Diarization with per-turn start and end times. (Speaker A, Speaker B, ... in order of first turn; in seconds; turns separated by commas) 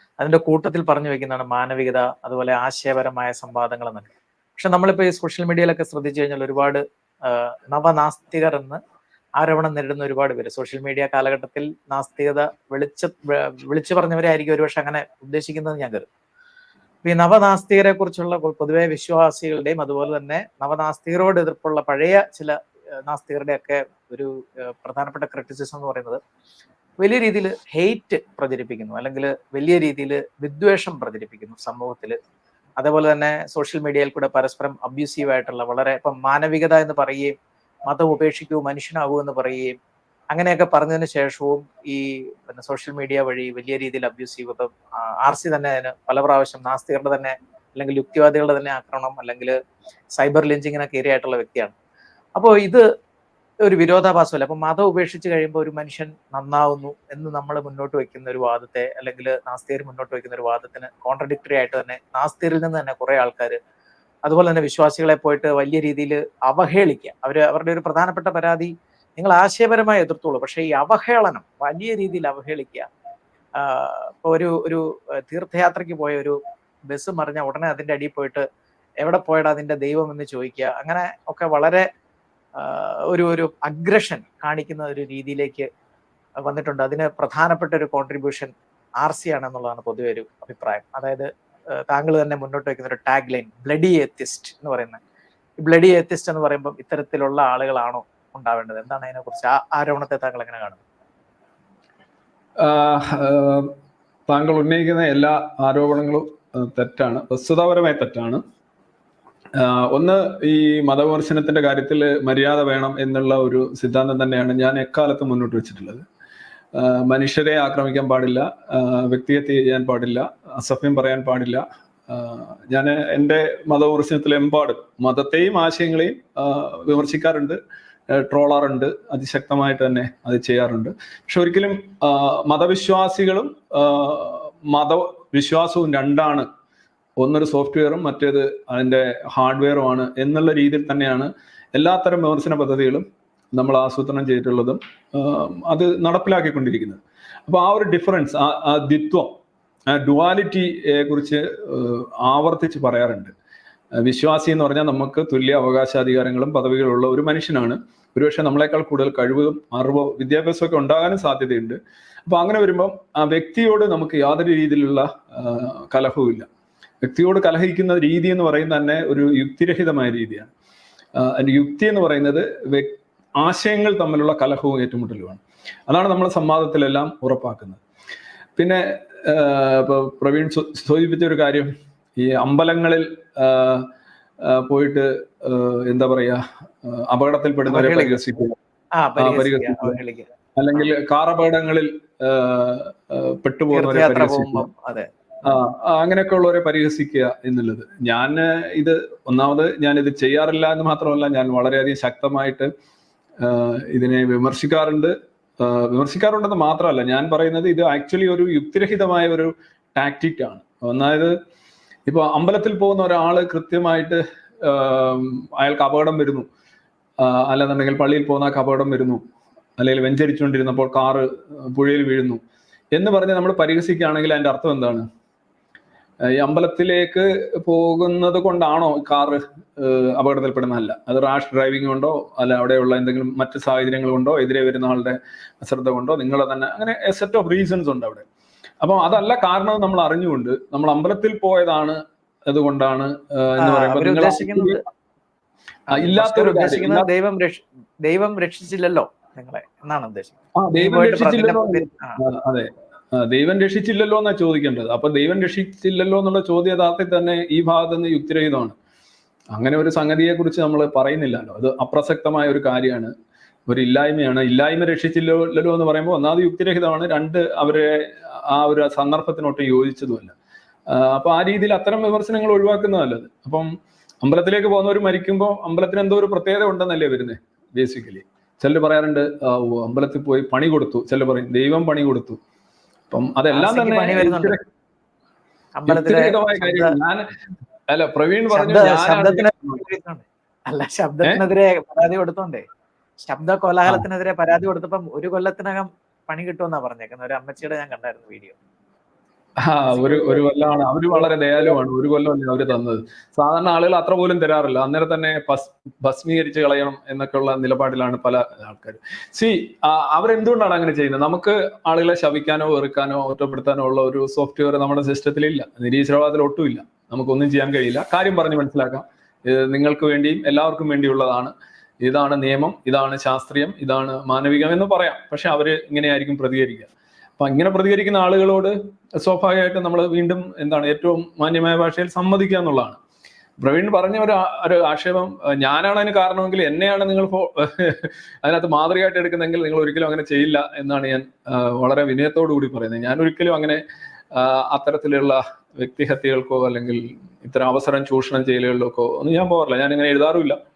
Speaker A: 0.2-8.8, Speaker A: 9.4-16.1, Speaker A: 17.0-26.2, Speaker A: 27.0-32.2, Speaker A: 32.8-37.3, Speaker A: 37.9-39.7, Speaker A: 40.3-49.5, Speaker A: 50.2-51.7, Speaker A: 52.4-52.8, Speaker A: 53.6-63.6, Speaker A: 64.2-72.9, Speaker A: 73.6-76.4, Speaker A: 76.9-78.4, Speaker A: 79.0-81.8, Speaker A: 82.6-85.7, Speaker A: 86.4-95.0, Speaker A: 95.6-100.8, Speaker B: 102.6-103.7, Speaker B: 104.3-108.4, Speaker B: 109.6-116.0, Speaker B: 116.8-127.6, Speaker B: 128.1-136.5, Speaker B: 137.2-149.3, Speaker B: 149.9-153.3, Speaker B: 154.0-166.5, Speaker B: 167.0-170.5, Speaker B: 171.2-177.8, Speaker B: 178.6-183.9, Speaker B: 184.4-188.6, Speaker A: 187.7-188.2, Speaker A: 189.0-190.9, Speaker B: 189.2-190.0, Speaker B: 190.6-194.7, Speaker A: 193.7-195.1, Speaker B: 195.5-202.7, Speaker B: 203.4-211.3, Speaker B: 212.1-216.5, Speaker B: 217.2-219.2, Speaker B: 219.8-222.4, Speaker B: 222.9-225.0, Speaker B: 226.3-238.2, Speaker B: 238.8-244.8, Speaker A: 243.6-244.8, Speaker A: 245.9-252.2, Speaker B: 245.9-247.1, Speaker B: 250.6-258.8, Speaker B: 259.5-263.1, Speaker B: 263.7-270.3, Speaker B: 270.9-273.7, Speaker B: 274.2-282.4, Speaker B: 283.1-284.6, Speaker A: 283.5-284.6, Speaker A: 285.8-286.9, Speaker B: 285.9-287.2, Speaker B: 287.9-289.8, Speaker A: 288.5-292.6, Speaker A: 293.2-298.6, Speaker B: 299.6-333.0, Speaker A: 299.9-300.5, Speaker A: 301.1-301.8, Speaker B: 333.6-343.8, Speaker B: 344.3-350.6